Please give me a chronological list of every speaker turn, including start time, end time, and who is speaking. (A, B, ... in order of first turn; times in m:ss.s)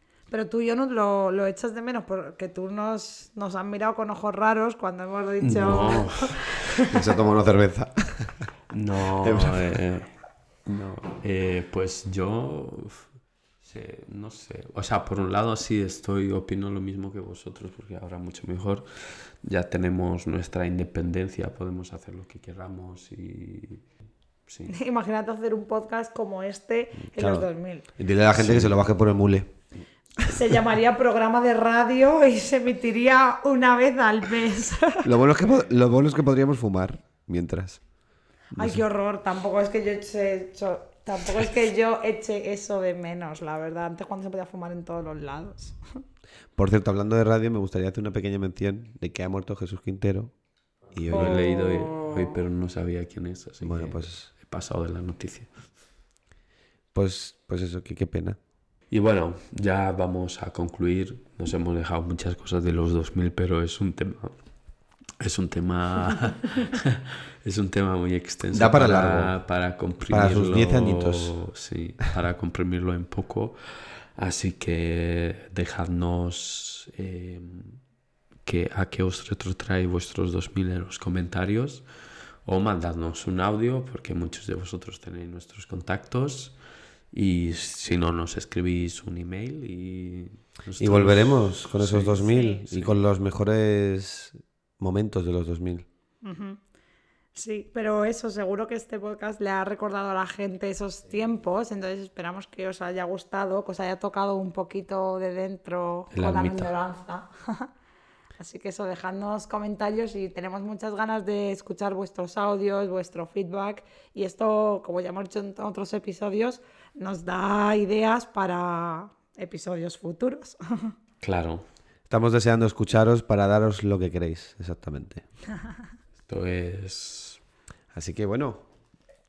0:00.3-0:07.0 A
0:05.4-0:06.6 B
0:06.9-0:08.5 C
0:08.7-0:10.1 B
0:09.2-0:09.8 C
0:10.7-0:13.1 B
0:13.6-0:23.8 B
0:24.5-0:24.7 B
0:24.7-0:27.9 A
0:27.0-0:29.5 C
0:28.3-0:28.8 B
0:30.2-0:35.1 A
0:35.0-0:37.8 C
0:38.6-0:45.8 A
0:38.6-0:38.8 C
0:46.6-0:50.3 C
0:50.9-0:51.5 C
0:51.1-0:55.5 B
0:51.1-0:52.3 A
0:53.6-0:54.3 C
0:56.9-0:58.4 C
0:58.9-1:04.4 B
1:05.2-1:17.8 B
1:08.5-1:09.3 C
1:10.1-1:11.4 C
1:18.4-1:21.8 B
1:22.5-1:26.6 B
1:27.1-1:33.0 B
1:30.8-1:35.9 C
1:32.3-1:32.6 A
1:36.2-1:36.6 A
1:37.3-1:47.7 A
1:46.1-1:46.7 B
1:48.4-2:00.9 A
2:01.2-2:01.6 B
2:02.1-2:05.2 C
2:06.3-2:07.4 B
2:07.9-2:08.6 C